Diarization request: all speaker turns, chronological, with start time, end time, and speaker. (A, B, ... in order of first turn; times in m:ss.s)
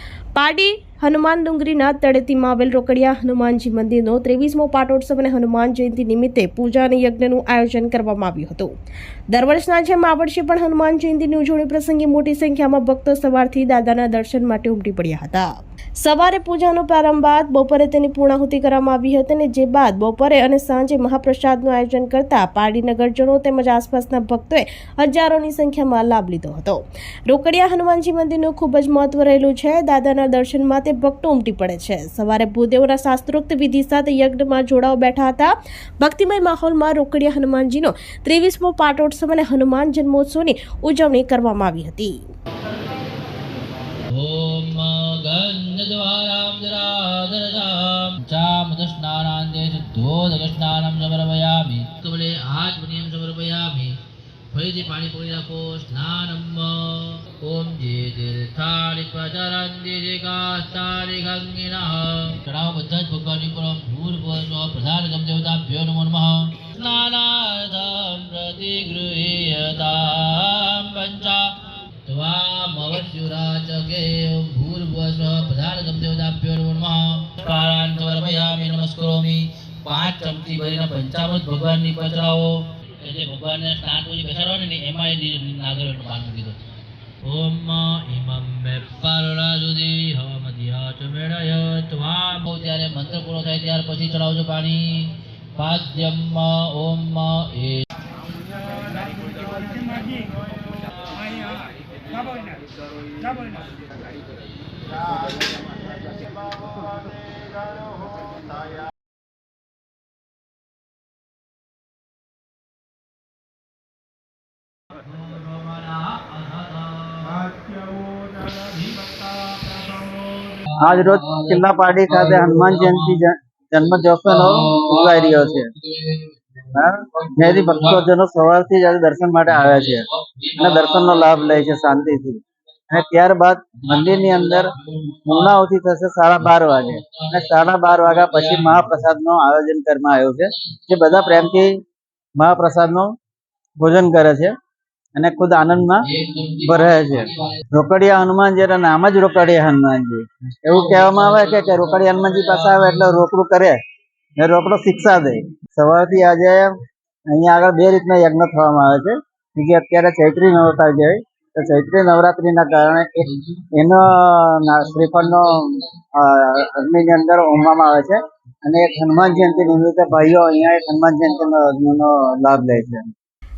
0:00.4-0:08.7 A
0:09.3-0:15.5 A
0:16.0-0:42.2 A
0:44.1-0:54.0 B
0:54.5-1:11.5 B
1:12.1-1:26.6 B
1:27.2-1:37.8 B
1:55.0-2:03.2 B
2:00.8-2:05.7 C
2:04.2-2:06.3 B
2:06.8-2:10.1 C
2:07.2-2:08.1 B
2:09.5-2:11.6 B
2:10.6-2:14.7 C
2:13.8-2:15.6 B
2:15.3-2:21.8 C
2:16.4-2:18.9 B
2:22.4-2:23.1 C
2:23.8-2:24.5 C
2:25.2-2:26.1 C
2:26.0-2:27.6 B
2:26.6-2:33.8 C
2:30.8-2:32.9 B
2:34.4-2:36.7 C
2:37.3-2:53.1 C